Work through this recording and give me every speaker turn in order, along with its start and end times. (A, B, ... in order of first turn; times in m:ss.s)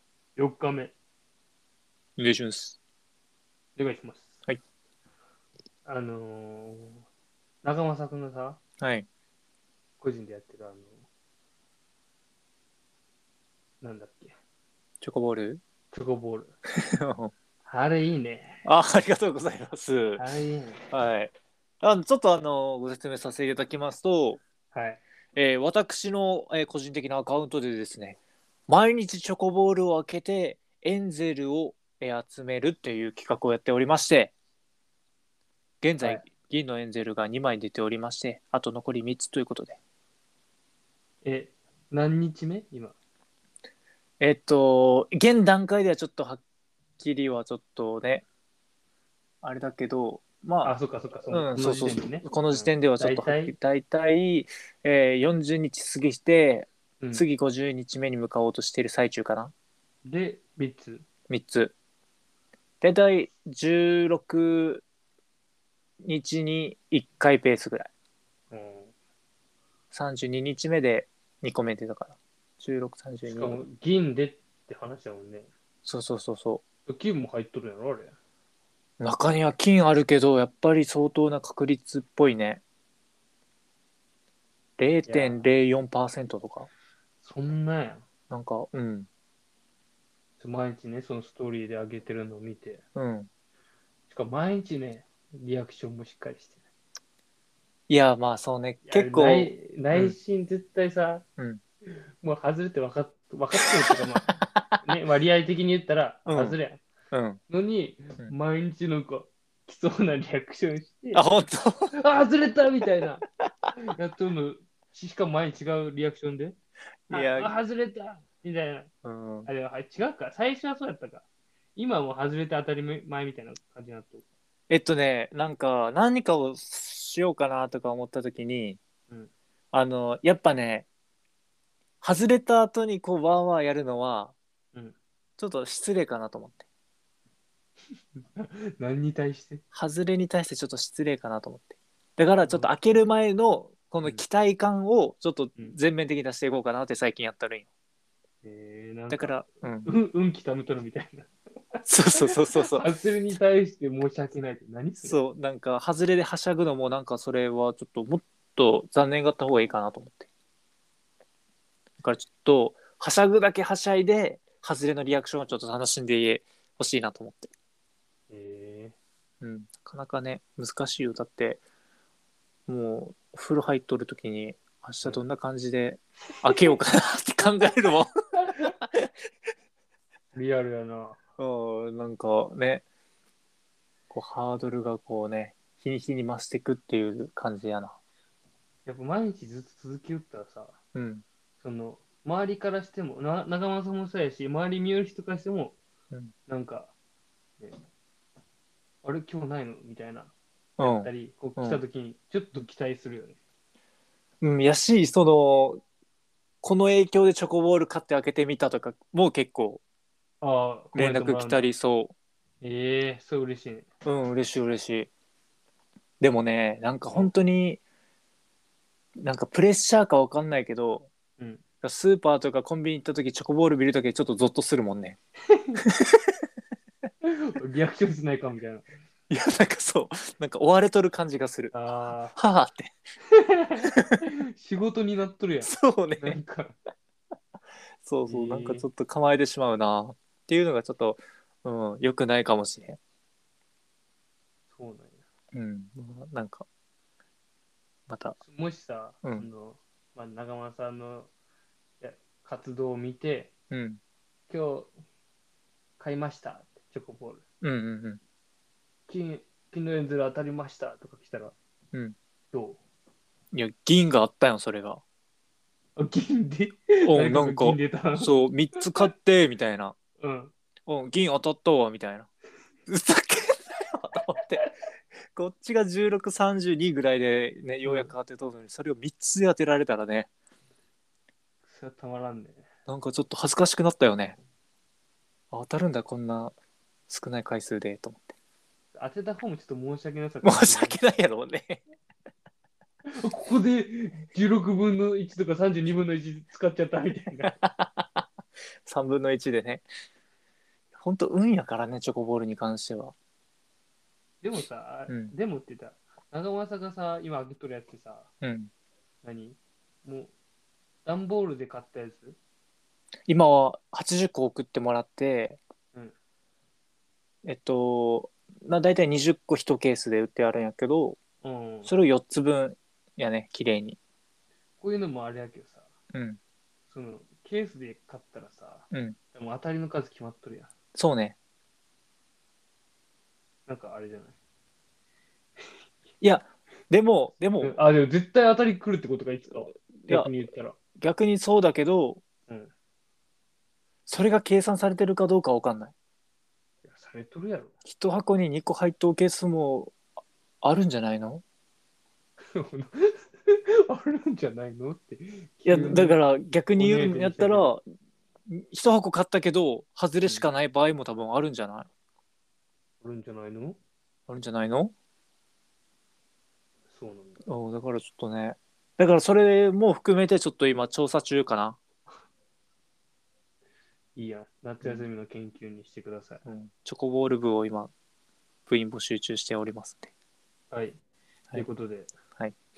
0:00.4-0:00.9 A
0:02.2-0:02.8 B
0:03.8-0:04.4 A
0:05.8-0:07.0 A
0:07.6-0:08.6 A
0:08.8-0:09.1 B
0:10.0-0:11.0 A
0:13.8-0:14.3 A
0:15.0-0:15.6 B
0:15.9-0:16.5 A
0:16.8-0:17.3 B
0:17.6-0:18.6 A
0:18.6-0:20.2 B
0:20.2-0:20.8 A
0:20.8-0:21.3 B
0:21.8-0:24.4 B
0:24.7-0:25.0 A
0:25.3-0:34.3 B
0:35.8-0:39.8 B
0:41.2-0:43.0 A
0:44.2-0:46.4 B
0:47.0-0:48.2 B
0:49.4-0:50.8 B
0:50.6-0:53.5 A
0:51.3-0:59.5 B
0:57.0-0:57.2 A
1:00.0-1:01.0 A
1:01.3-1:01.7 B
1:02.8-1:04.8 B
1:06.0-1:07.9 B
1:08.5-1:08.9 A
1:09.9-1:13.6 B
1:13.2-1:15.5 A
1:15.8-1:16.6 B
1:16.9-1:18.2 A
1:19.0-1:22.6 B
1:24.8-1:26.7 B
1:25.0-1:25.4 A
1:27.2-1:28.0 A
1:28.3-1:29.1 B
1:30.4-1:32.8 A
1:32.9-1:33.3 B
1:34.1-1:36.6 A
1:37.9-1:40.2 B
1:38.8-1:41.2 A
1:42.2-1:44.3 A
1:44.8-1:46.8 A
1:46.2-1:46.6 B
1:47.1-1:47.4 B
1:47.5-1:51.2 A
1:51.1-1:52.0 B
1:52.0-1:53.2 A
1:53.8-1:56.6 A
1:57.1-1:57.5 B
1:57.1-1:58.9 A
1:59.0-1:59.5 B
1:59.5-2:01.2 A
2:01.8-2:04.2 A
2:04.7-2:08.8 B
2:09.7-2:10.9 B
2:12.0-2:14.4 B
2:15.4-2:16.6 B
2:18.3-2:19.6 A
2:19.7-2:27.7 B
2:22.4-2:22.7 A
2:28.4-2:31.3 A
2:29.1-2:29.9 B
2:31.8-2:32.9 B
2:32.6-2:35.2 A
2:35.0-2:40.3 B
2:42.0-2:47.5 B
2:48.3-2:48.9 A
2:49.4-2:51.6 B
2:52.7-2:58.1 B
3:00.3-3:01.2 A
3:01.4-3:02.8 B
3:04.1-3:08.0 B
3:08.8-3:10.8 A
3:10.9-3:11.2 B
3:11.6-3:15.8 A
3:16.5-3:16.9 A
3:19.0-3:23.4 A
3:20.8-3:21.8 B
3:24.4-3:25.8 B
3:26.6-3:29.8 B
3:30.4-3:31.7 A
3:30.9-3:32.1 B
3:32.6-3:33.9 A
3:34.0-3:35.1 B
3:36.2-3:37.8 B
3:39.2-3:41.1 B
3:41.8-3:45.2 B
3:45.5-3:45.8 A
3:45.8-3:46.4 B
3:47.2-3:48.9 A
3:49.3-3:51.7 B
3:51.7-3:52.4 A
3:52.4-3:53.0 B
3:53.4-3:56.7 A
3:54.0-3:54.2 B
3:55.6-3:56.4 B
3:58.0-4:03.0 B
3:58.3-3:58.9 A
4:04.7-4:05.2 A
4:05.5-4:06.6 B
4:08.1-4:08.4 B
4:08.4-4:11.3 A
4:12.0-4:13.5 A
4:13.7-4:14.0 B
4:14.5-4:14.9 A
4:16.0-4:17.4 A
4:17.6-4:18.2 B
4:19.1-4:21.5 A
4:22.5-4:22.8 A
4:23.5-4:25.0 B
4:26.0-4:28.3 A
4:27.1-4:30.0 B
4:30.2-4:30.5 A
4:30.8-4:32.3 B
4:32.9-4:34.6 B
4:35.3-4:40.3 B
4:37.8-4:38.1 A
4:41.6-4:42.6 A
4:42.9-4:44.4 B
4:45.5-4:46.5 B
4:47.1-4:48.3 B
4:48.9-4:51.0 A
4:50.4-4:51.8 B
4:53.1-4:57.6 A
4:57.4-4:58.2 B
4:58.8-4:59.8 B
5:01.0-5:03.1 B
5:04.4-5:08.3 A
5:05.1-5:05.3 B
5:08.4-5:08.7 B
5:09.2-5:10.3 A
5:11.0-5:12.4 A
5:13.3-5:15.6 B
5:17.4-5:21.2 B
5:21.4-5:21.9 A
5:21.8-5:24.0 B
5:24.8-5:25.9 A
5:26.1-5:26.4 B
5:26.9-5:30.7 A
5:28.9-5:29.2 B
5:30.9-5:31.4 B
5:33.7-5:34.4 A
5:36.2-5:37.7 B
5:37.6-5:40.8 A
5:40.0-5:40.3 B
5:41.0-5:42.2 B
5:44.1-5:45.9 B
5:46.8-5:47.7 A
5:47.8-5:50.0 B
5:50.6-5:51.4 B
5:52.5-5:56.2 A
5:55.6-5:57.8 B
5:56.7-5:57.7 A
5:58.5-6:01.9 B
6:03.0-6:03.8 A
6:04.3-6:04.9 B
6:06.9-6:07.4 A
6:07.4-6:11.8 B
6:14.2-6:16.4 A
6:14.8-6:15.1 B
6:16.4-6:17.9 B
6:18.7-6:20.1 B
6:20.7-6:21.0 A
6:21.5-6:22.1 A